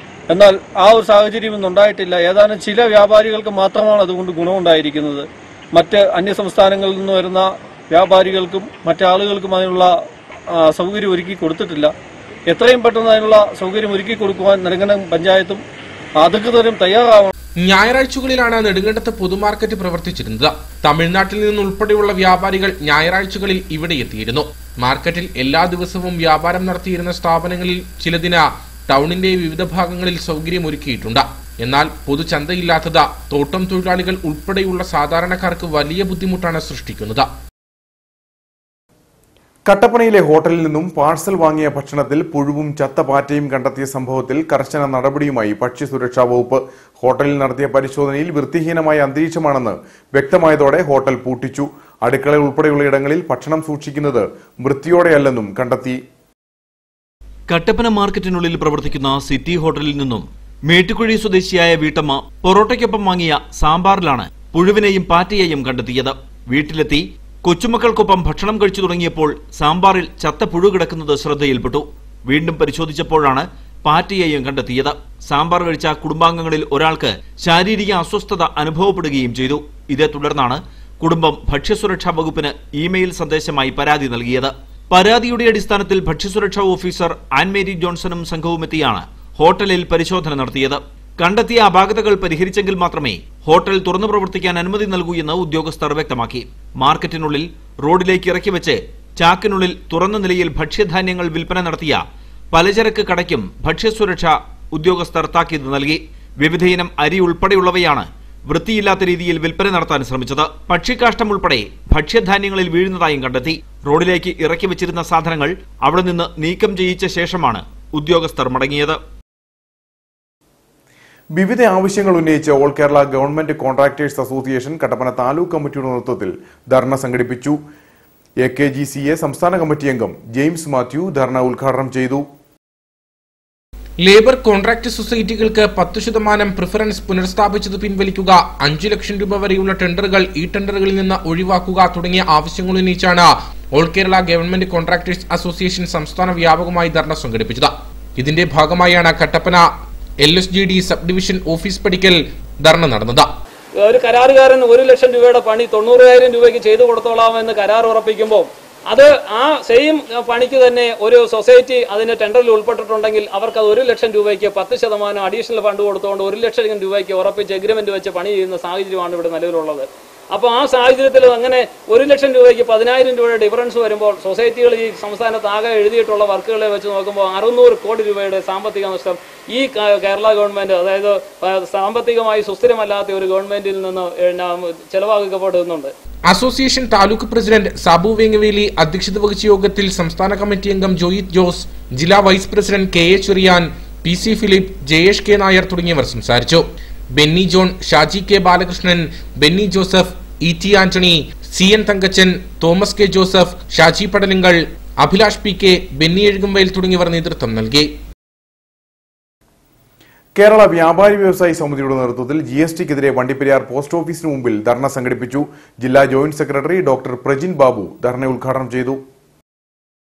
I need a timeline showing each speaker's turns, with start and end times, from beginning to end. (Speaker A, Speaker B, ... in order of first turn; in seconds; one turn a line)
Speaker A: 0.3-9.9
Speaker A: 10.5-11.9
Speaker A: 12.5-15.6
Speaker A: 16.2-17.3
Speaker B: 17.6-37.3
Speaker C: 39.7-56.0
Speaker D: 57.5-102.0
Speaker D: 102.5-119.0
Speaker C: 121.3-127.6
Speaker C: 128.4-132.2
Speaker B: 134.0-149.6
Speaker B: 150.2-153.3
Speaker E: 153.8-185.9
Speaker B: 186.3-196.6
Speaker B: 197.1-207.9
Speaker C: 210.3-219.0